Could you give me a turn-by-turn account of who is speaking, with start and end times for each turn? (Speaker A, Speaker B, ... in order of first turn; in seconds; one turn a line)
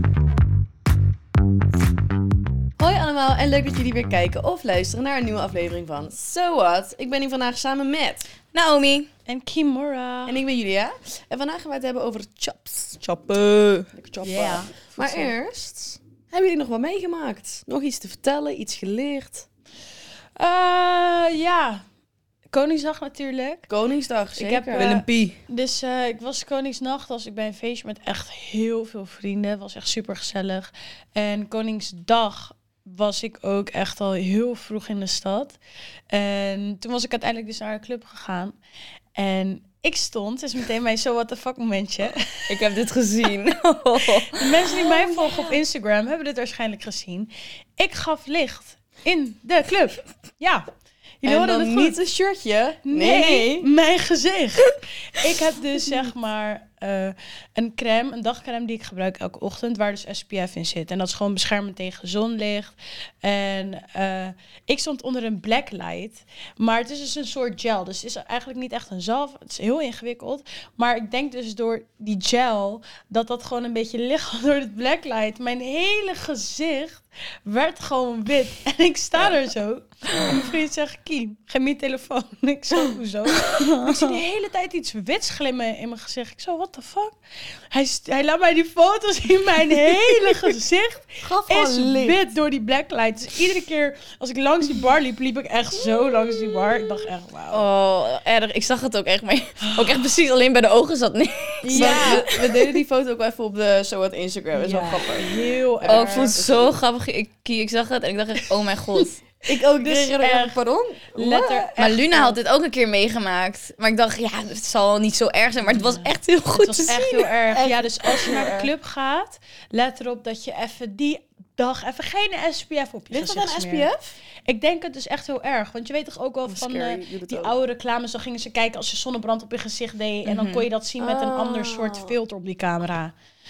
Speaker A: 2.8-8.3
Speaker B: 8.5-9.1
Speaker C: 9.2-10.4
Speaker A: 10.2-13.0
Speaker B: 13.0-13.9
Speaker A: 13.9-19.5
Speaker C: 14.2-15.3
Speaker C: 20.4-21.8
Speaker C: 22.5-23.7
Speaker A: 23.7-25.1
Speaker C: 24.4-35.6
Speaker B: 24.7-25.4
Speaker C: 36.1-38.5
Speaker C: 39.1-42.6
Speaker B: 42.5-45.5
Speaker C: 44.3-50.6
Speaker C: 51.2-52.0
Speaker A: 51.2-53.7
Speaker C: 52.8-87.1
Speaker A: 83.5-84.2
Speaker C: 87.7-97.6
Speaker A: 91.2-92.2
Speaker B: 97.5-102.7
Speaker C: 99.6-100.0
Speaker A: 101.6-106.8
Speaker C: 101.7-102.3
Speaker C: 104.5-106.4
Speaker B: 105.8-109.2
Speaker A: 109.4-111.7
Speaker C: 109.8-110.6
Speaker C: 111.1-112.4
Speaker B: 111.8-117.3
Speaker C: 115.7-123.9
Speaker A: 117.5-118.7
Speaker A: 123.1-124.1
Speaker C: 124.5-133.1
Speaker A: 126.4-127.5
Speaker B: 130.2-130.7
Speaker A: 131.0-132.1